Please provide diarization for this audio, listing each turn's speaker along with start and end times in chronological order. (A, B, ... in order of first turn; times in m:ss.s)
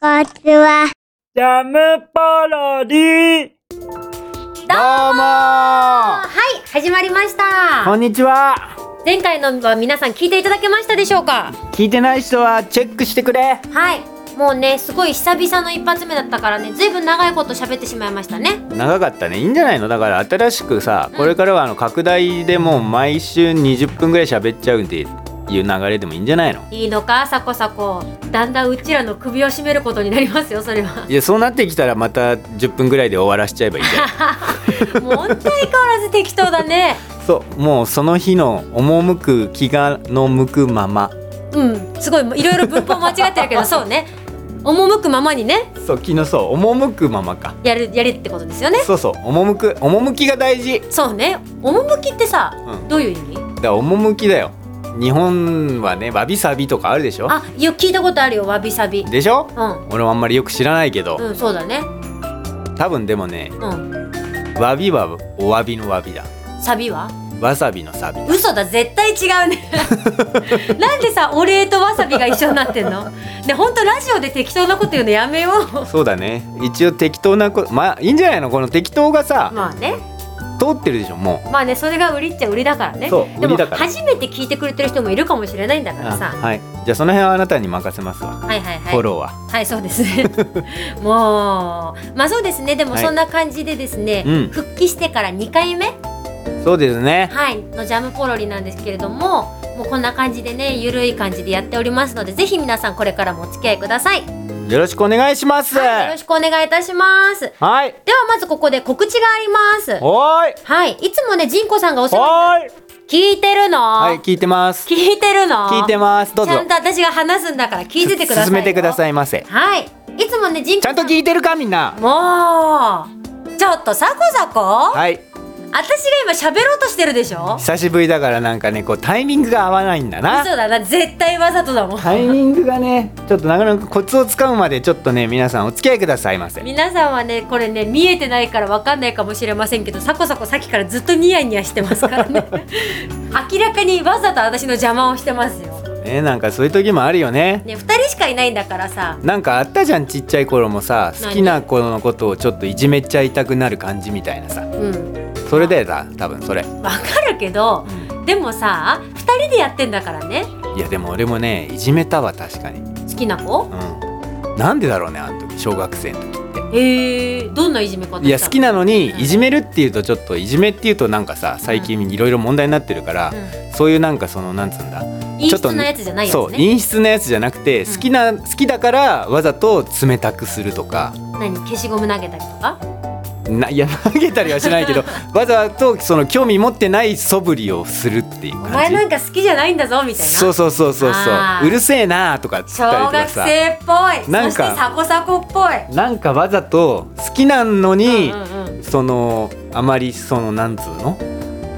0:01.4-0:03.5 A
0:04.7-0:08.0 B
0:04.7-0:06.3 A
0:07.8-0:08.7 A
0:09.0-0:11.6 B
0:11.6-0:13.6 A
0:13.7-0:18.6 B
0:18.7-0:26.7 A
0:26.7-0:31.1 B
0:31.1-0:35.5 A
0:33.8-0:37.0 B
0:37.2-0:41.2 A
0:41.5-0:44.1 B
0:42.4-0:43.8 A
0:44.6-0:45.7 B
0:45.8-0:47.6 A
0:47.6-0:48.9 B
0:48.8-0:50.9 A
0:50.9-0:53.4 B
0:53.6-0:57.4 A
0:57.3-0:59.8 B
0:59.0-1:01.2 A
1:01.2-1:01.9 B
1:02.8-1:03.6 A
1:03.6-1:03.9 B
1:04.6-1:06.3 A
1:06.6-1:07.2 B
1:07.4-1:08.4 A
1:08.3-1:15.9 B
1:09.8-1:10.7 A
1:12.3-1:12.9 A
1:15.9-1:19.6 A
1:19.5-1:20.0 B
1:20.6-1:21.4 A
1:21.5-1:26.4 B
1:23.1-1:23.9 A
1:26.0-1:29.4 A
1:28.4-1:36.0 B
1:30.2-1:30.7 A
1:34.2-1:34.5 A
1:36.6-1:37.3 A
1:37.3-1:44.3 B
1:44.7-1:46.2 A
1:45.7-1:47.5 B
1:47.6-1:48.0 A
1:48.0-1:50.0 B
1:50.0-1:50.6 A
1:50.6-1:52.6 B
1:52.1-1:52.7 A
1:53.1-1:54.2 B
1:54.0-1:54.9 A
1:54.9-2:01.2 B
1:55.7-1:56.7 A
1:58.0-1:59.5 A
2:00.8-2:02.0 A
2:02.0-2:05.0 B
2:04.9-2:05.2 A
2:05.7-2:07.6 B
2:07.6-2:10.5 A
2:10.3-2:12.4 B
2:12.0-2:16.6 A
2:16.6-2:25.8 B
2:22.0-2:22.5 A
2:26.0-2:27.6 A
2:27.6-2:29.2 B
2:29.2-2:34.7 A
2:31.2-2:31.6 B
2:34.8-2:35.8 B
2:35.5-2:36.7 A
2:36.8-2:40.5 B
2:40.7-2:42.9 A
2:43.1-2:43.7 B
2:43.7-2:44.0 A
2:44.6-2:46.6 A
2:46.7-2:48.6 B
2:48.2-3:01.2 A
2:49.1-2:49.4 B
2:55.4-2:56.6 B
3:01.4-3:02.8 B
3:03.5-3:09.0 A
3:04.6-3:04.9 B
3:08.6-3:11.8 B
3:10.2-3:13.6 A
3:12.7-3:15.9 B
3:14.3-3:14.8 A
3:15.9-3:21.2 A
3:18.0-3:18.8 B